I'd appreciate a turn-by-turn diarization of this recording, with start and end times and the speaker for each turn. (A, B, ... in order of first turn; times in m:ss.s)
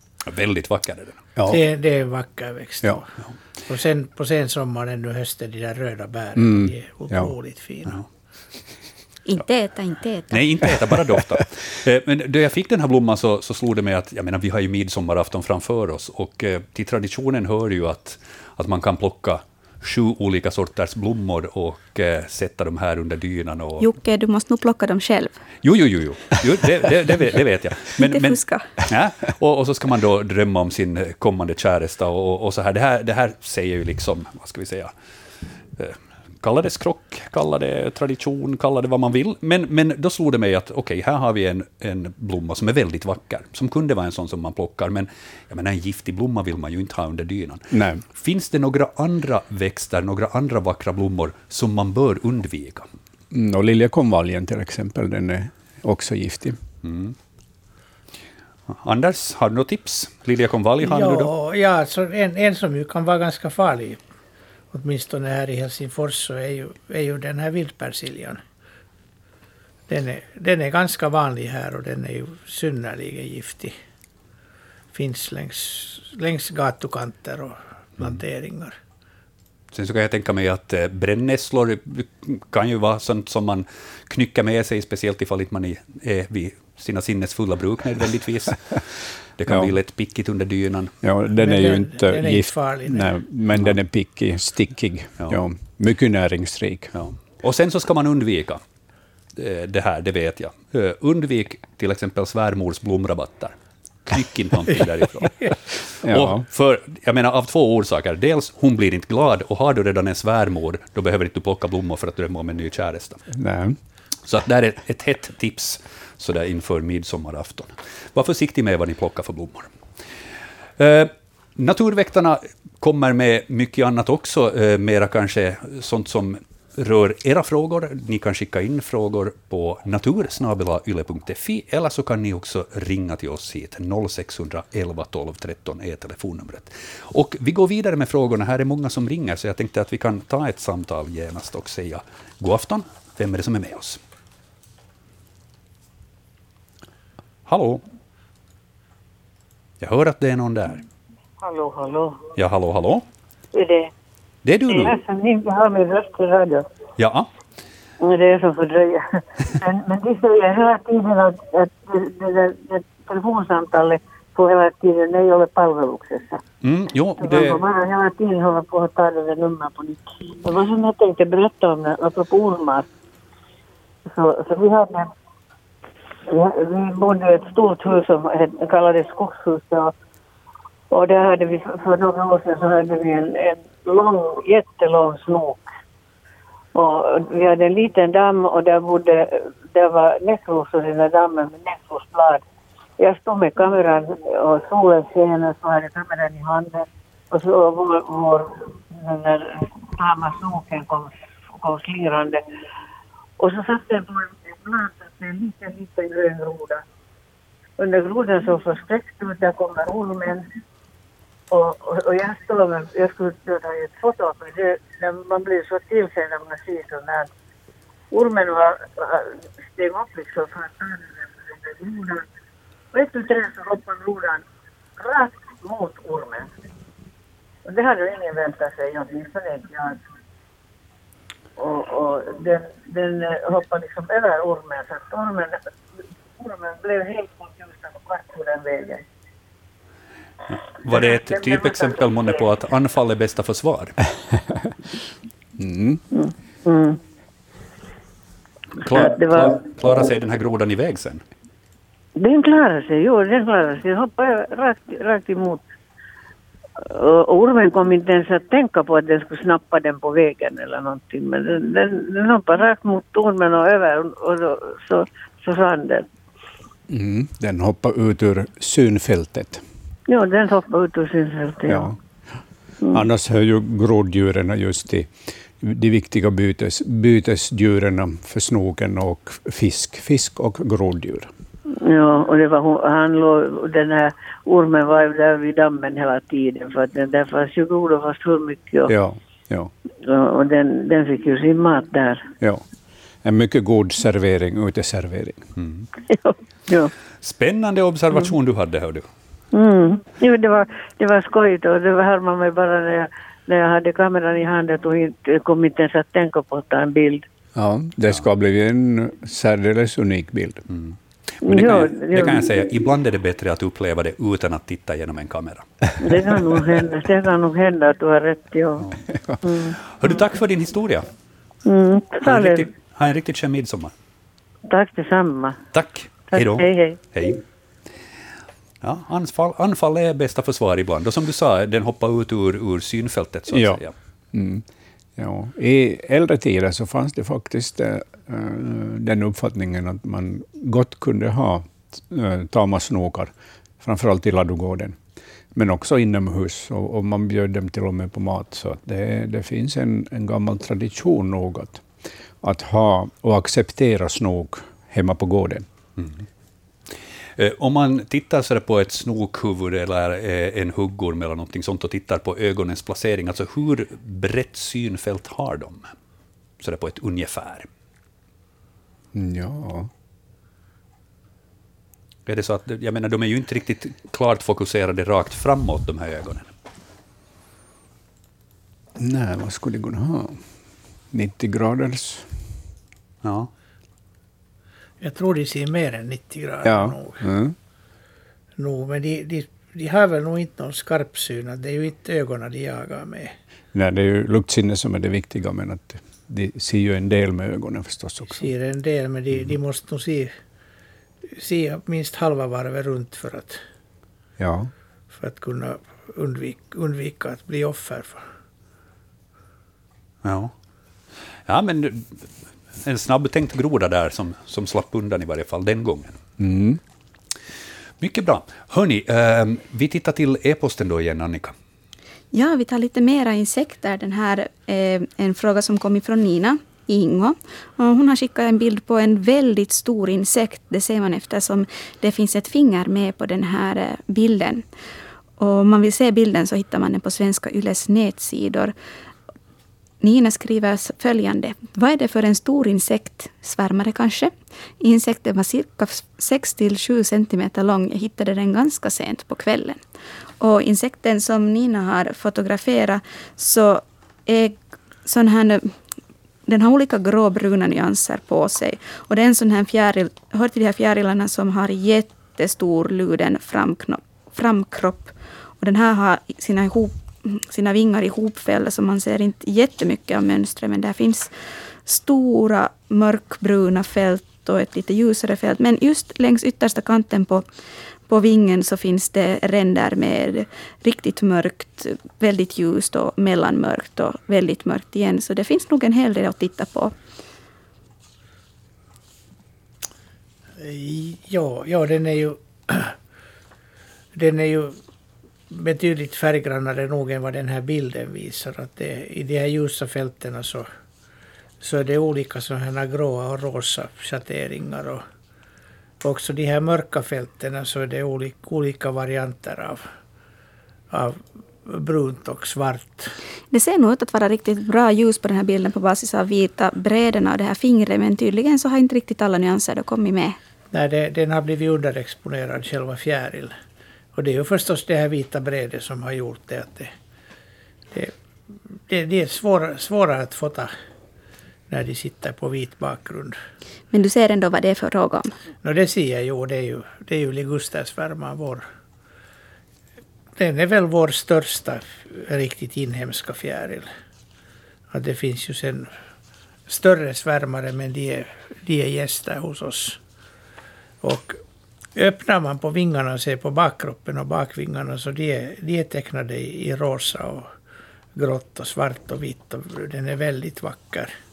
0:00.2-0:01.2 A
0:01.4-0:01.6 B
0:01.5-0:03.1 C
0:03.7-0:08.0 C
0:06.4-0:07.3 B
0:09.2-0:10.4 D
0:10.3-0:23.9 A
0:23.8-0:25.4 D
0:25.6-0:34.9 A
0:28.1-0:28.7 D
0:35.8-0:52.9 A
0:47.7-0:48.0 B
0:53.3-0:56.6 B
0:56.8-0:57.2 A
0:58.7-1:01.3 A
1:00.8-1:04.0 C
1:04.7-1:08.4 C
1:09.9-1:13.7 C
1:14.9-1:18.7 C
1:19.7-1:30.9 A
1:29.5-1:29.7 B
1:31.0-1:36.9 B
1:31.4-1:33.1 C
1:36.9-1:38.6 A
1:39.4-1:53.2 A
1:46.0-1:46.4 B
1:53.3-1:53.8 B
1:54.2-1:59.7 A
2:00.8-2:24.0 A
2:27.5-2:27.8 A
2:29.8-2:30.8 A
2:31.4-2:32.2 E
2:32.4-2:33.0 A
2:33.5-2:33.9 E
2:34.4-2:34.9 A
2:34.7-2:36.7 E
2:37.0-2:37.3 A
2:38.0-2:46.4 E
2:46.6-2:47.6 A
2:47.2-2:52.9 E
2:54.1-2:55.1 E
2:56.3-2:59.9 E
3:00.9-3:05.6 E
3:06.7-3:12.4 E
3:13.0-3:22.4 E
3:23.4-3:26.8 E
3:27.8-3:30.5 E
3:31.5-3:37.3 E
3:38.1-3:42.3 E
3:42.9-3:44.4 E
3:45.0-3:46.5 E
3:47.6-3:50.0 E
3:51.6-3:55.6 E
3:56.4-3:59.0 E
4:00.5-4:04.0 A
4:00.9-4:02.4 E
4:05.6-4:06.0 B
4:06.1-4:07.0 E
4:08.8-4:11.2 A
4:08.8-4:10.1 E
4:12.2-4:15.6 E
4:16.8-4:26.1 E
4:26.9-4:29.6 B
4:30.1-4:31.9 E
4:31.7-4:32.0 B
4:32.9-4:41.3 B
4:41.7-4:48.9 E
4:48.9-4:49.7 B
4:50.0-4:52.2 E
4:53.2-4:55.5 B
4:55.6-4:55.9 A
4:56.1-4:56.9 E
4:57.2-4:59.0 A
4:59.5-5:07.2 E
5:07.5-5:10.7 B
5:10.7-5:15.7 A
5:11.4-5:12.6 E
5:16.0-5:18.9 E
5:19.4-5:19.8 E
5:19.8-5:21.1 A
5:21.6-5:22.7 E
5:22.2-5:23.9 A
5:24.7-5:25.6 E
5:25.7-5:27.4 A
5:26.3-5:27.0 E
5:28.8-5:33.9 A
5:33.5-5:33.8 B
5:34.3-5:34.6 B
5:35.2-5:45.0 B
5:45.5-5:51.8 B
5:52.4-5:55.6 B
5:56.0-5:56.2 A
5:56.9-6:05.9 A
6:06.6-6:07.7 A
6:09.1-6:09.9 B
6:12.2-6:16.5 A
6:19.0-6:20.4 B
6:21.1-6:22.3 B
6:23.2-6:23.5 A
6:25.0-6:27.2 C
6:26.6-6:27.5 B
6:28.6-6:33.3 C
6:33.7-6:38.5 B
6:38.3-6:40.3 C
6:41.3-6:43.6 C
6:44.4-6:44.7 B
6:45.1-6:48.2 C
6:50.2-6:50.5 A
6:51.4-6:56.2 A
6:56.4-6:56.8 B
6:58.0-7:01.5 A
7:02.3-7:14.6 D
7:15.4-7:18.7 D
7:20.0-7:29.8 D
7:30.4-7:35.7 D
7:36.5-7:51.3 D
7:51.8-7:57.4 D
7:58.1-8:06.9 D
8:10.6-8:13.0 C
8:14.1-8:14.8 C
8:15.5-8:20.7 C
8:21.6-8:25.0 C
8:26.0-8:29.8 C
8:30.9-8:33.2 C
8:33.5-8:40.4 D
8:40.7-8:43.5 C
8:44.1-8:46.9 C
8:48.8-8:50.7 C
8:51.7-8:53.4 C
8:53.9-8:55.3 D
8:55.6-8:58.6 C
9:00.4-9:03.9 C
9:04.9-9:05.9 C
9:06.7-9:10.0 C
9:11.0-9:11.4 C
9:11.9-9:17.5 C
9:18.2-9:21.1 C